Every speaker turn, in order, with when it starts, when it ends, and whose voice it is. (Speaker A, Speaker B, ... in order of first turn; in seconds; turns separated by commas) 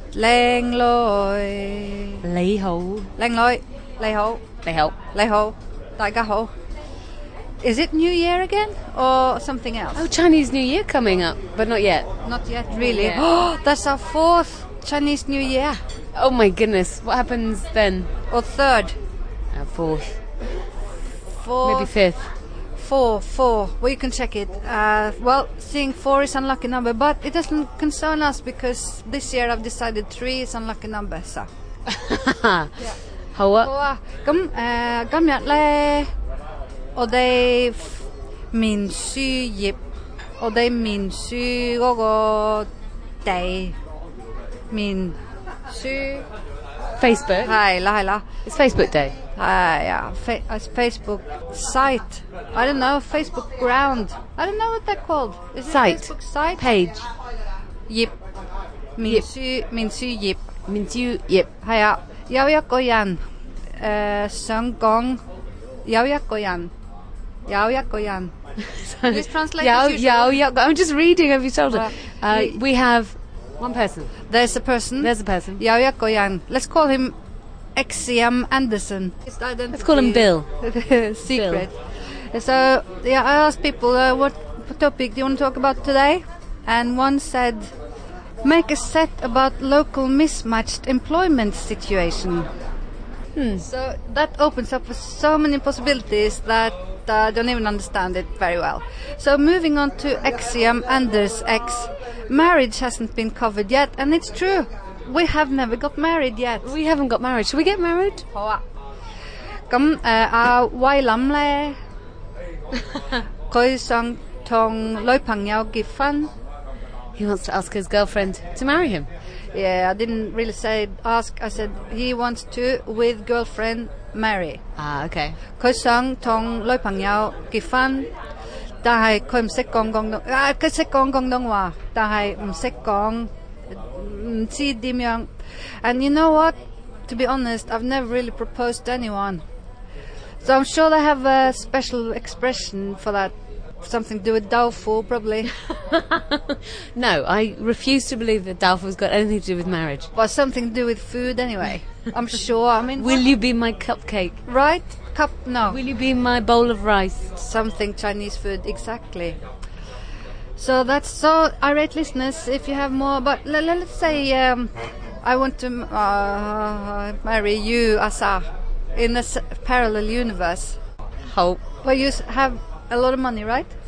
Speaker A: 0.1-2.2, Speaker B: 2.2-3.1, Speaker A: 3.2-4.4, Speaker B: 4.6-5.0, Speaker A: 5.1-6.5, Speaker A: 7.6-10.1, Speaker B: 10.0-12.1, Speaker A: 12.2-15.8, Speaker B: 12.8-13.3, Speaker B: 16.2-18.1, Speaker A: 18.3-19.0, Speaker B: 19.5-20.2, Speaker A: 21.3-21.9, Speaker B: 21.6-22.3, Speaker A: 22.8-31.5, Speaker B: 31.9-32.7, Speaker B: 33.4-33.7, Speaker A: 33.6-36.1, Speaker A: 37.0-39.8, Speaker A: 40.4-42.7, Speaker A: 43.2-43.8, Speaker A: 44.7-45.2, Speaker A: 45.7-46.3, Speaker B: 47.0-47.6, Speaker A: 47.4-48.3, Speaker B: 48.5-49.1, Speaker A: 49.4-56.7, Speaker B: 55.7-57.1, Speaker A: 57.9-58.1, Speaker A: 59.0-60.4, Speaker B: 60.7-61.5, Speaker A: 61.6-63.2, Speaker A: 63.8-65.2, Speaker A: 65.8-66.7, Speaker A: 67.5-68.3, Speaker B: 68.7-74.1, Speaker A: 69.1-70.4, Speaker A: 71.7-72.6, Speaker A: 74.3-77.2, Speaker B: 75.0-75.6, Speaker A: 77.8-81.8, Speaker B: 79.7-80.5, Speaker B: 81.2-81.7, Speaker A: 82.3-87.7, Speaker A: 88.4-92.5, Speaker B: 93.3-93.6, Speaker A: 93.6-106.7, Speaker B: 106.6-108.3, Speaker A: 108.3-108.6, Speaker A: 109.7-111.8, Speaker A: 113.5-116.3, Speaker B: 117.2-119.1, Speaker A: 119.5-124.6, Speaker B: 124.8-125.4, Speaker A: 125.6-128.1, Speaker A: 128.8-135.3, Speaker A: 135.8-136.5, Speaker A: 137.1-139.4, Speaker A: 140.4-145.5, Speaker B: 145.7-150.1, Speaker A: 150.2-153.2, Speaker B: 153.0-154.4, Speaker A: 154.5-155.8, Speaker B: 155.7-157.3, Speaker A: 157.4-159.4, Speaker A: 160.6-168.4, Speaker A: 168.9-170.8, Speaker B: 171.3-171.6, Speaker A: 171.8-173.7